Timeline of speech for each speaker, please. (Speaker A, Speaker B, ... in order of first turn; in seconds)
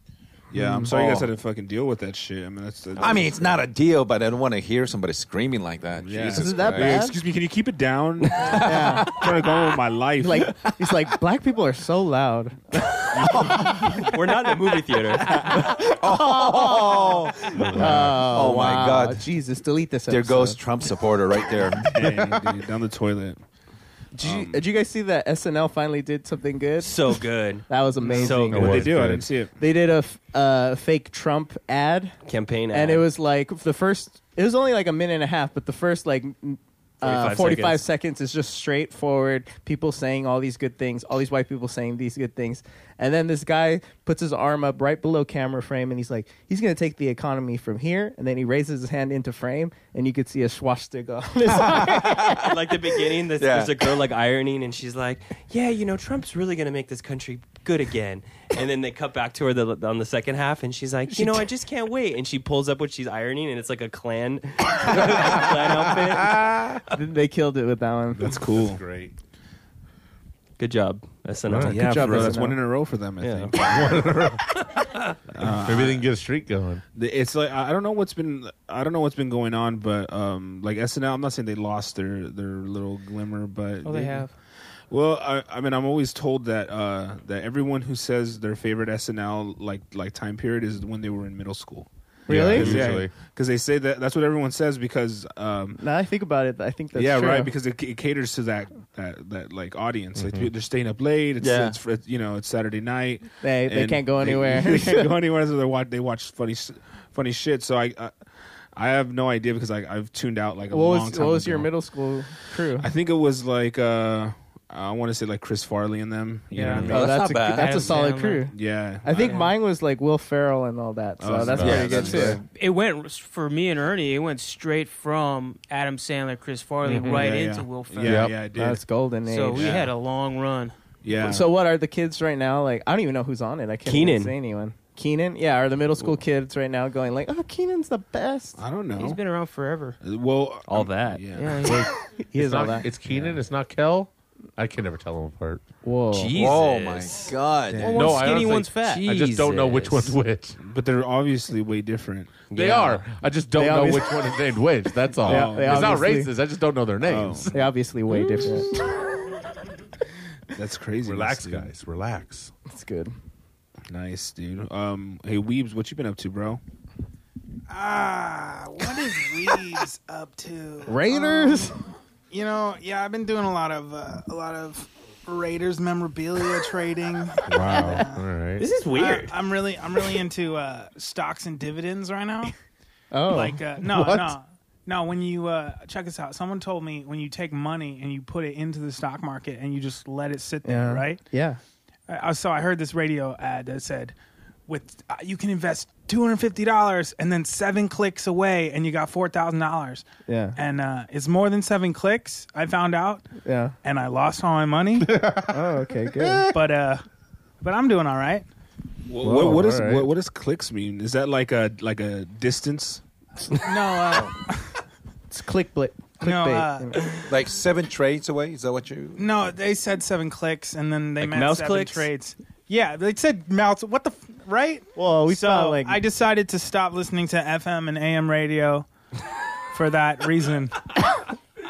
Speaker A: 0.5-3.6, 6.0-10.7, 21.9-23.4, 24.2-24.6, 28.0-29.5, 68.2-68.8, 71.6-74.0, 75.3-76.0, 76.9-84.3, 84.9-95.8, 96.9-108.1, 108.7-111.7, 112.8-117.0, 118.5-119.4, 121.2-122.3, 126.9-128.8, 129.5-129.9, 131.0-131.4, 138.6-139.2, 140.0-141.6, 150.6-152.4, 155.2-156.0, 157.0-157.5, 160.5-161.7, 163.9-166.6, 209.1-213.0
Speaker B: 0.5-0.9, 6.3-7.2, 8.6-9.2, 10.2-13.7, 15.4-20.6, 24.1-28.8, 29.6-32.1, 32.7-52.5, 66.9-68.3, 71.7-72.6, 92.3-92.7, 95.8-97.5, 103.4-105.1, 110.7-112.9, 116.9-122.4, 128.5-129.7, 131.2-138.6, 142.2-142.9, 145.8-146.3, 153.6-154.1, 155.2-156.3, 157.5-158.7, 162.7-163.1, 170.9-171.8, 183.1-184.1, 190.6-191.6, 200.3-200.6, 203.4-203.8, 205.5-206.5, 215.3-217.0, 224.9-226.0
Speaker C: 0.9-1.2, 3.0-7.0, 8.3-9.2, 13.2-14.1, 15.7-19.2, 20.1-21.9, 51.6-52.5, 53.3-54.0, 101.4-101.8, 116.8-117.9, 121.6-122.4, 146.3-148.2, 217.3-219.4
Speaker D: 14.0-15.4, 26.8-28.8, 32.2-33.1, 37.0-37.8, 52.4-66.4, 70.6-72.4, 73.2-73.8, 133.8-134.3, 140.7-141.3, 146.1-147.3, 148.8-150.2, 152.5-153.1, 178.6-179.3, 221.2-222.1
Speaker E: 17.5-18.4, 22.0-22.3, 28.5-29.3, 65.1-66.8, 68.2-69.1, 71.5-71.8, 73.6-74.6, 75.4-76.8, 92.3-93.1, 100.2-100.5, 116.6-117.0, 128.0-128.3, 141.7-145.6, 147.9-150.6, 152.5-157.6, 161.0-162.5, 177.5-178.7, 183.9-184.3, 205.1-206.5, 209.2-210.1
Speaker F: 83.8-84.3, 116.5-118.5, 119.2-119.5, 122.5-128.3, 129.3-130.7, 138.9-140.0, 141.3-141.9, 147.8-149.2
Speaker G: 167.7-171.8, 172.3-178.2, 178.9-182.5, 183.3-191.2, 192.1-194.1, 194.7-203.3, 203.8-205.2, 206.5-207.0, 207.6-208.4, 213.6-214.8, 216.2-217.2, 219.2-228.9, 229.7-231.2